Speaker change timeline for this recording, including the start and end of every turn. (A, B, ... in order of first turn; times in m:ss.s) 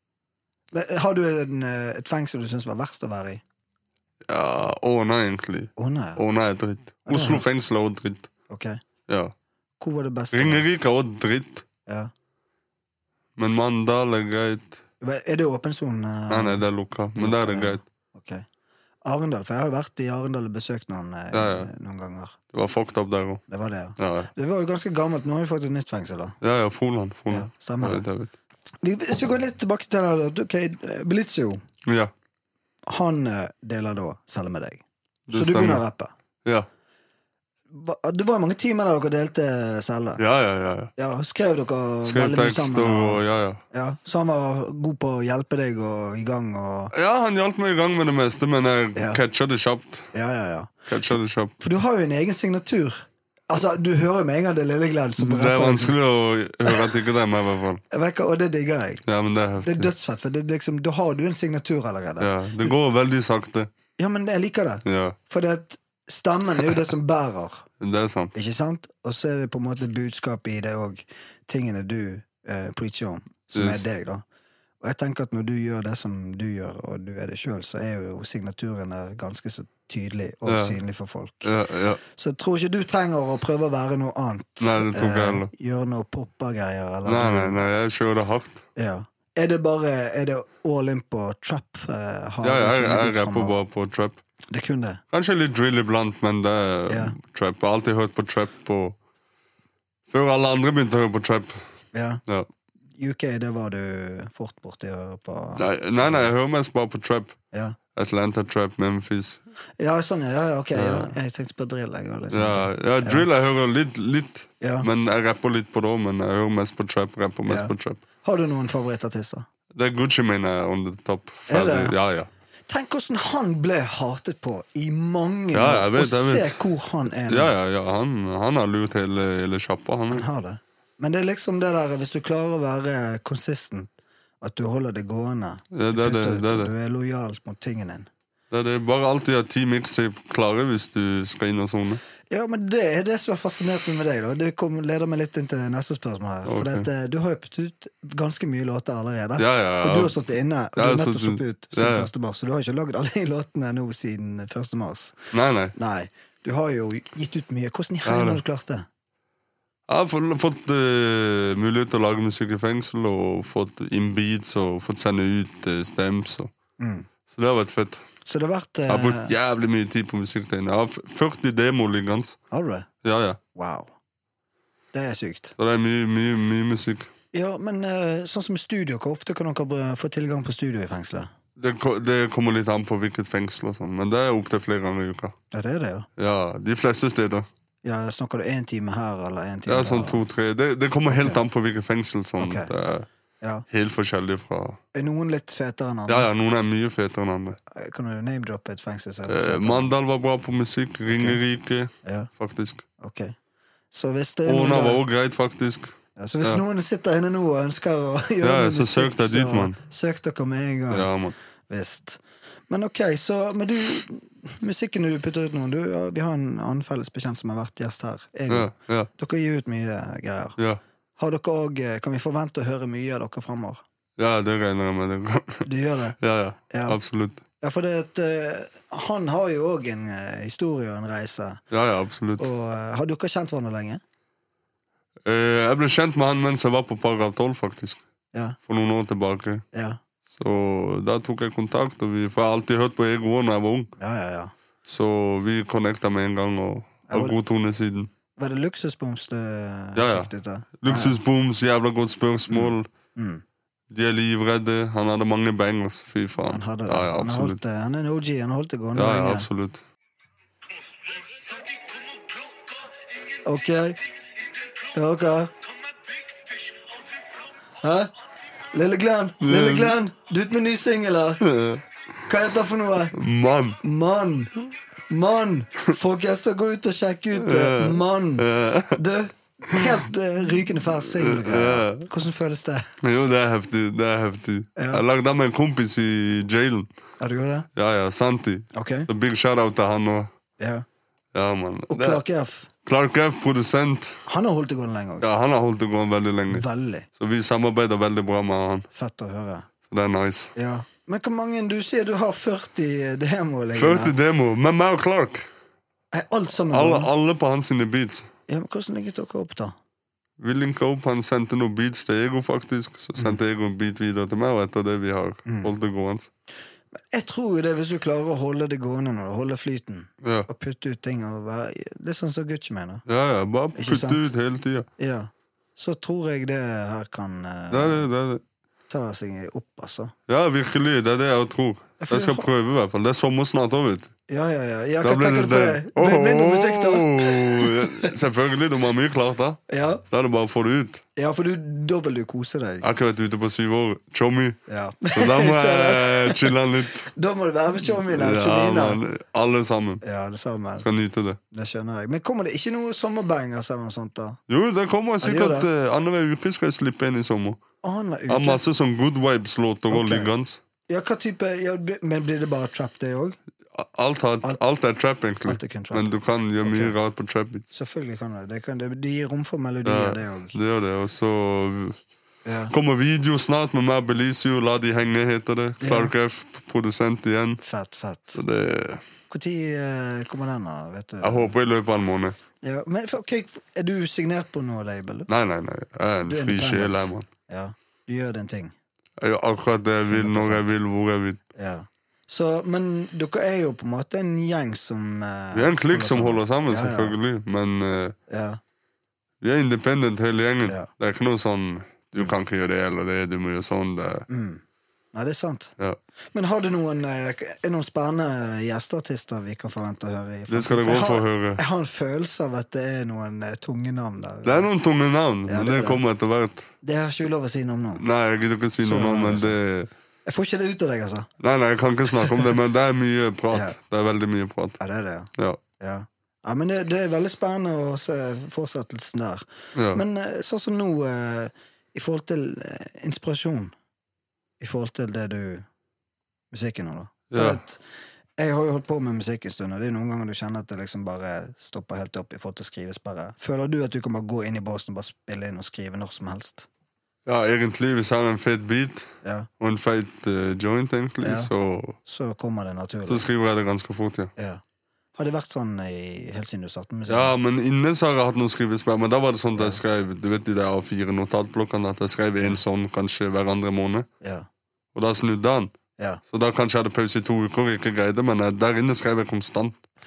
0:00.7-0:03.4 A
0:04.3-0:08.3 B
0:05.8-0:06.2 A
0:07.1-0:07.5 A
0:08.5-0:08.8 A
0:09.1-0:09.3 B
0:09.8-0:10.6 A
0:10.3-0:11.6 B
0:13.4-0:14.8 B
0:15.0-0:16.6 A
0:16.3-0:17.8 B
0:17.2-0:18.4 A
0:19.0-0:22.4 A
0:21.3-0:21.7 B
0:22.5-0:23.4 B
0:23.5-0:26.4 A
0:24.0-0:24.3 B
0:26.4-0:28.3 B
0:27.3-0:28.0 A
0:28.8-0:31.6 A
0:31.9-0:32.1 B
0:32.9-0:36.1 A
0:35.3-0:35.8 B
0:37.7-0:40.2 A
0:40.2-0:40.9 B
0:41.0-0:43.2 A
0:42.0-0:43.6 B
0:43.7-0:46.9 A
0:46.9-0:50.1 B
0:50.1-0:50.8 A
0:50.9-0:51.6 B
0:51.6-0:55.9 A
0:55.2-0:57.8 B
0:57.9-0:59.0 A
0:59.1-0:59.9 B
0:59.6-1:02.7 A
1:02.2-1:03.7 B
1:04.0-1:07.6 A
1:04.8-1:05.2 B
1:07.8-1:08.3 B
1:08.3-1:14.2 A
1:13.6-1:13.8 B
1:14.8-1:21.5 A
1:20.5-1:20.8 B
1:21.4-1:22.0 B
1:22.1-1:27.6 A
1:24.6-1:25.5 B
1:27.0-1:28.6 B
1:28.8-1:33.6 A
1:32.4-1:34.2 B
1:34.5-1:35.0 A
1:35.1-1:39.0 B
1:36.9-1:37.2 A
1:40.1-1:41.6 B
1:41.9-1:42.2 A
1:43.0-1:46.3 A
1:45.6-1:47.4 B
1:47.5-1:47.8 A
1:47.9-1:49.4 B
1:49.8-1:53.3 A
1:50.7-1:51.1 B
1:52.3-1:58.0 B
1:54.6-1:54.9 A
1:57.5-1:57.7 A
1:58.2-1:59.5 A
1:59.8-2:02.3 B
2:01.5-2:01.9 A
2:02.7-2:07.5 A
2:05.5-2:06.6 B
2:07.3-2:10.2 B
2:10.1-2:18.1 A
2:15.7-2:16.7 B
2:18.5-2:22.0 B
2:22.3-2:38.9 A
2:26.4-2:26.9 B
2:29.4-2:30.1 B
2:30.8-2:32.1 B
2:35.3-2:35.7 B
2:38.0-2:38.4 B
2:39.9-2:46.5 B
2:46.8-2:47.1 A
2:47.3-2:48.0 B
2:48.3-2:49.3 A
2:48.9-2:52.4 B
2:52.5-2:52.9 A
2:53.0-2:53.4 B
2:53.6-2:53.9 A
2:54.9-2:55.6 A
2:55.6-2:57.1 B
2:57.3-3:01.3 A
3:01.6-3:05.4 B
3:05.5-3:06.1 A
3:06.2-3:07.5 B
3:07.8-3:10.2 A
3:09.7-3:13.1 B
3:11.1-3:11.4 A
3:12.4-3:12.7 A
3:13.7-3:14.8 B
3:14.9-3:16.3 A
3:16.1-3:17.6 B
3:17.7-3:19.9 A
3:19.3-3:22.8 B
3:21.1-3:21.4 A
3:22.0-3:22.3 A
3:23.0-3:23.4 A
3:23.9-3:25.0 A
3:24.5-3:26.6 B
3:26.2-3:31.1 A
3:28.4-3:29.8 B
3:30.9-3:31.4 B
3:31.7-3:40.6 A
3:38.5-3:39.1 B
3:41.2-3:43.8 A
3:44.2-3:45.7 B
3:45.6-3:46.2 A
3:46.2-3:47.4 B
3:46.7-3:47.0 A
3:47.6-3:51.6 A
3:51.7-3:52.5 B
3:52.4-3:54.0 A
3:55.3-3:58.0 B
3:58.7-3:59.6 B
3:59.7-4:00.0 A
4:00.3-4:03.9 B
4:04.0-4:04.5 A
4:04.9-4:08.1 B
4:07.1-4:07.4 A
4:08.4-4:11.2 A
4:10.0-4:12.9 B
4:12.5-4:13.4 A
4:13.9-4:17.6 B
4:16.5-4:19.5 A
4:18.9-4:19.8 B
4:23.4-4:24.0 A
4:24.9-4:25.5 A
4:27.8-4:28.1 A
4:28.7-4:31.4 A
4:29.4-4:30.0 B
4:31.4-4:31.8 B
4:32.3-4:33.1 A
4:33.1-4:33.8 B
4:33.8-4:34.5 A
4:35.1-4:42.9 A
4:37.4-4:39.0 B
4:39.7-4:40.0 B
4:41.0-4:42.1 B
4:43.0-4:46.9 B
4:44.8-4:45.0 A
4:47.2-4:47.7 A
4:47.8-4:50.3 B
4:48.7-4:49.1 A
4:50.6-4:50.8 A
4:51.3-4:52.2 B
4:51.9-4:52.7 A
4:52.8-4:54.2 B
4:54.3-4:55.3 A
4:55.2-4:56.6 B
4:56.5-4:57.1 A
4:57.2-4:58.9 B
4:58.9-4:59.7 A
4:59.9-5:00.5 B
5:00.6-5:04.1 A
5:03.8-5:05.5 B
5:06.1-5:07.1 A
5:06.7-5:08.3 B
5:08.5-5:09.8 A
5:10.4-5:16.3 B
5:15.5-5:15.7 A
5:17.1-5:23.0 A
5:20.2-5:20.5 B
5:23.1-5:24.9 B
5:23.8-5:24.3 A
5:25.0-5:28.1 A
5:27.7-5:28.4 B
5:28.9-5:30.1 A
5:30.3-5:34.1 B
5:32.0-5:32.5 A
5:34.3-5:38.1 A
5:35.0-5:41.0 B
5:39.7-5:40.0 A
5:41.2-5:42.9 A
5:42.8-5:44.6 B
5:44.7-5:49.0 A
5:45.1-5:47.1 B
5:47.9-5:50.0 B
5:50.0-5:50.9 A
5:50.8-5:51.4 B
5:51.5-5:54.4 A
5:54.5-5:57.6 B
5:55.2-5:55.7 A
5:57.8-5:58.6 A
5:58.3-6:00.6 B
5:59.9-6:00.3 A
6:00.9-6:03.4 A
6:03.8-6:07.6 B
6:05.5-6:06.1 A
6:06.6-6:07.0 A
6:07.7-6:10.6 A
6:09.8-6:12.0 B
6:12.4-6:12.7 A
6:12.7-6:17.6 B
6:15.8-6:16.1 A
6:17.6-6:18.4 A
6:18.4-6:19.0 B
6:19.3-6:21.5 A
6:21.2-6:22.4 B
6:22.6-6:25.3 A
6:25.3-6:27.3 B
6:26.3-6:28.7 A
6:29.2-6:31.4 B
6:30.1-6:30.7 A
6:31.6-6:37.2 A
6:35.5-6:38.2 B
6:38.3-6:38.6 A
6:39.4-6:44.3 B
6:44.3-6:44.6 A
6:45.1-6:45.7 A
6:46.3-6:54.7 A
6:50.5-6:51.6 B
6:54.4-6:56.7 B
6:55.5-6:56.0 A
6:56.8-6:58.0 A
6:58.0-6:59.9 B
6:58.8-6:59.6 A
7:00.3-7:01.3 A
7:01.4-7:04.8 B
7:04.8-7:13.7 A
7:09.8-7:10.0 B
7:14.6-7:15.6 A
7:16.5-7:17.8 A
7:17.3-7:17.6 B
7:18.4-7:26.7 A
7:27.3-7:32.0 B
7:29.2-7:29.5 A
7:31.2-7:31.5 A
7:32.0-7:33.3 A
7:33.1-7:34.3 B
7:34.4-7:34.6 A
7:35.1-7:37.4 A
7:37.1-7:44.1 B
7:39.6-7:39.8 A
7:44.2-7:44.5 A
7:44.9-7:45.7 B
7:46.3-7:49.8 B